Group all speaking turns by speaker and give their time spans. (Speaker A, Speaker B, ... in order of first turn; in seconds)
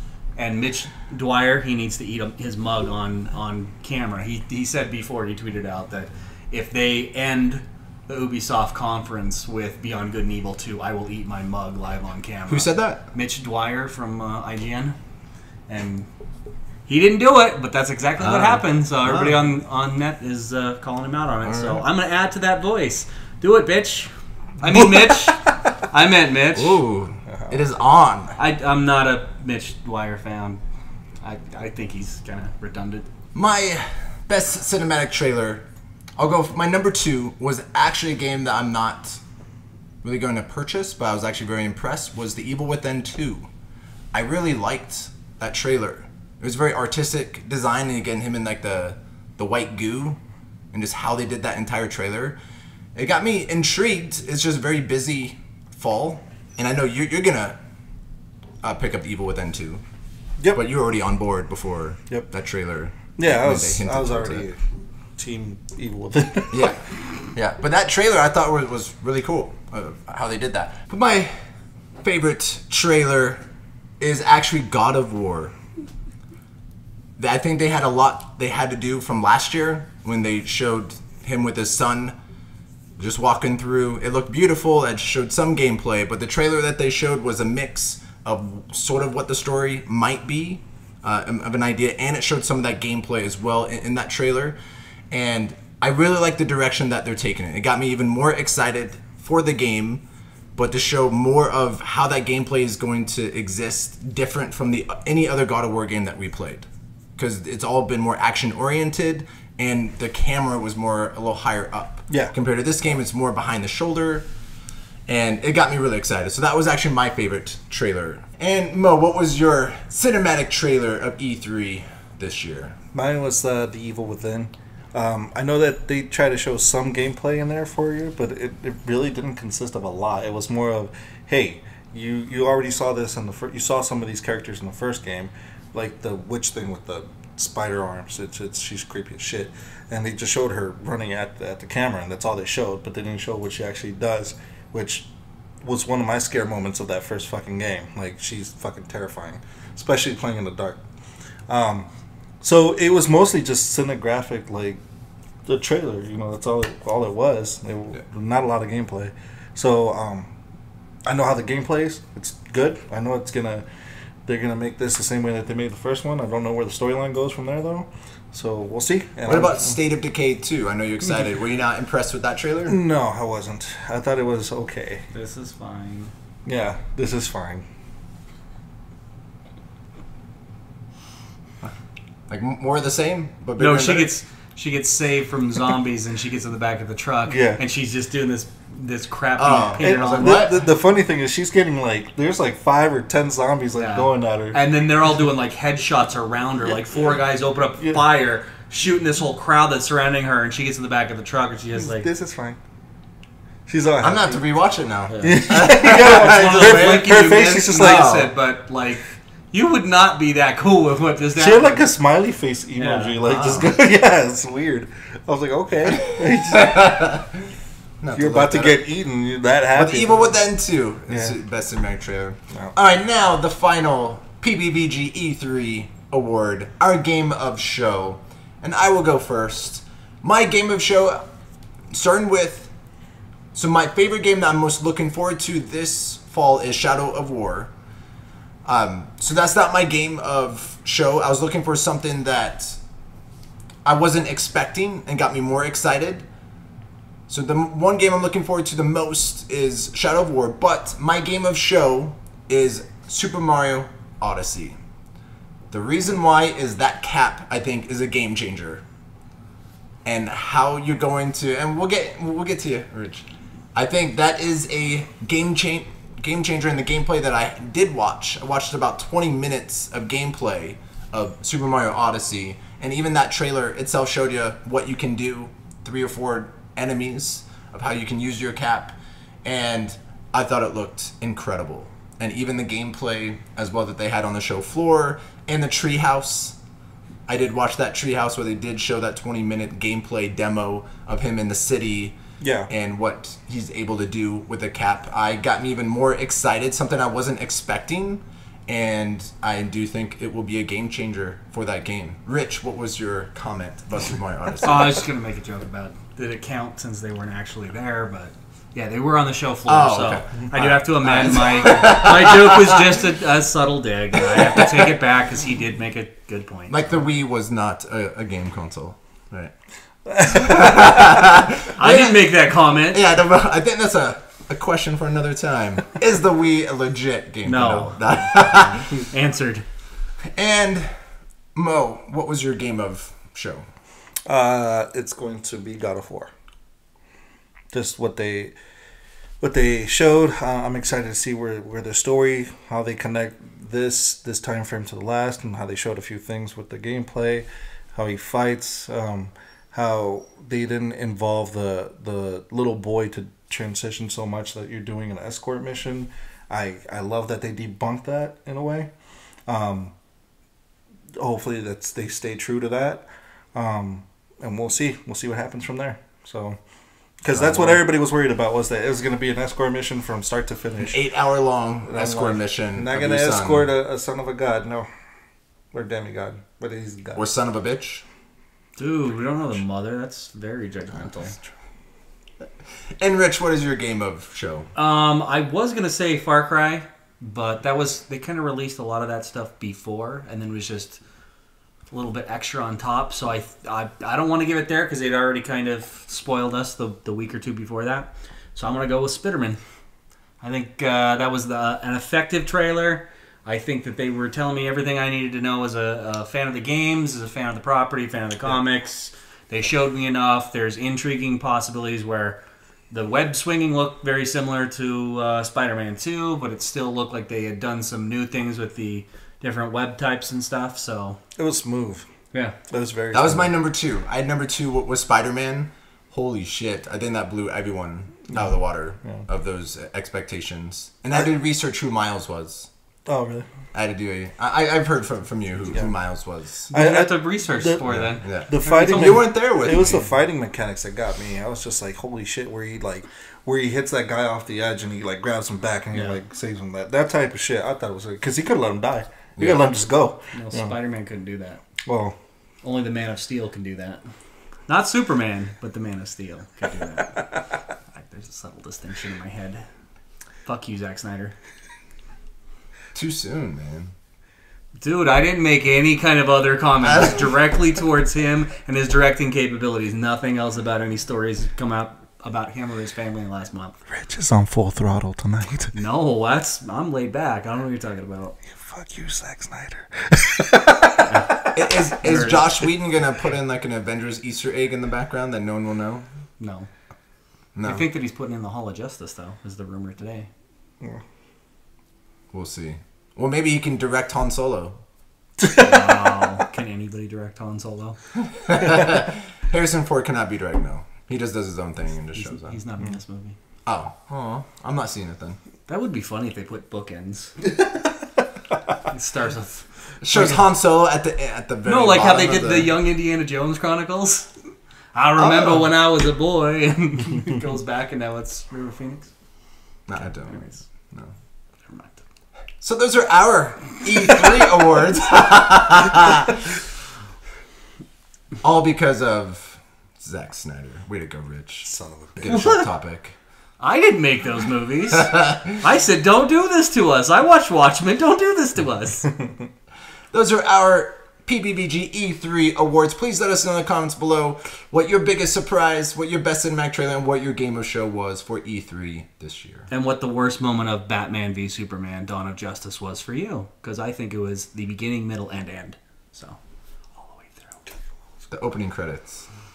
Speaker A: 0.3-14.9, 15.7-16.1, 16.9-26.8, 28.4-30.6, 31.2-33.1, 175.1-176.1, 183.6-190.4, 193.8-202.1, 205.1-211.8, 212.8-213.2, 304.6-316.8, 321.8-323.0, 327.4-329.6, 378.8-381.3, 384.7-391.0, 391.9-399.6, 400.4-412.4, 412.9-421.2, 436.7-439.1, 445.9-446.2, 450.3-451.6, 452.6-454.0, 454.7-459.6, 460.4-461.3, 464.8-473.7, 475.7-478.3, 481.0-482.5, 486.4-486.7, 487.6-490.3, 495.5-497.9, 502.1-503.4, 505.7-507.4, 508.8-510.4, 511.6-514.3, 514.9-519.1, 520.0-520.6, 521.7-522.0, 532.3-532.7, 533.6-539.1, 549.7-556.4, 557.0-557.6
Speaker B: 12.5-13.1, 18.2-19.4, 21.4-21.8, 26.5-28.4, 33.3-35.6, 36.2-39.2, 40.0-43.5, 44.1-50.2, 50.7-52.4, 53.0-57.6, 58.6-59.8, 60.5-64.5, 66.5-66.8, 67.3-71.4, 72.0-73.4, 74.0-75.5, 77.2-82.1, 83.0-94.6, 95.1-100.0, 100.5-114.3, 115.1-122.8, 169.2-172.8, 182.3-184.1, 189.4-190.7, 204.0-208.3, 213.2-213.7, 215.8-217.3, 218.0-218.8, 219.7-231.2, 231.9-232.7, 233.5-237.7, 238.7-242.8, 243.8-246.2, 247.3-254.8, 255.7-258.8, 260.0-286.6, 287.3-292.2, 292.7-305.0, 309.7-310.2, 311.0-312.7, 316.7-319.5, 320.2-329.0, 330.3-330.9, 331.5-333.6, 367.3-367.9, 370.8-373.7, 377.1-378.0, 383.0-384.7, 423.1-432.7, 433.7-436.7, 437.9-440.0, 449.4-449.6, 462.9-463.9, 466.9-467.2, 481.5-486.1, 487.6-487.9, 492.3-494.8, 498.4-502.6, 503.6-505.4, 510.0-512.8, 519.9-520.4, 522.6-526.4, 528.4-533.1, 535.0-535.4, 540.1-549.7, 558.3-559.2
Speaker C: 27.3-27.5, 63.1-64.6, 65.2-66.8, 112.1-112.3, 122.9-145.1, 145.6-150.8, 151.5-151.9, 152.4-154.8, 155.4-160.3, 161.1-163.6, 164.2-169.8, 172.7-175.0, 176.4-177.6, 187.3-187.6, 189.8-194.6, 197.8-198.0, 201.7-202.6, 203.7-204.4, 205.2-208.0, 211.3-217.1, 218.1-220.3, 221.1-221.3, 292.4-292.7, 310.5-311.4, 320.1-321.2, 334.3-336.3, 337.7-338.5, 339.4-358.9, 359.5-359.9, 361.2-366.6, 367.2-371.0, 371.9-374.9, 375.7-377.2, 421.4-422.0, 422.7-423.6, 433.1-433.5, 436.7-437.9, 438.5-450.8, 451.8-452.1, 473.9-475.7, 478.6-481.1, 531.6-532.4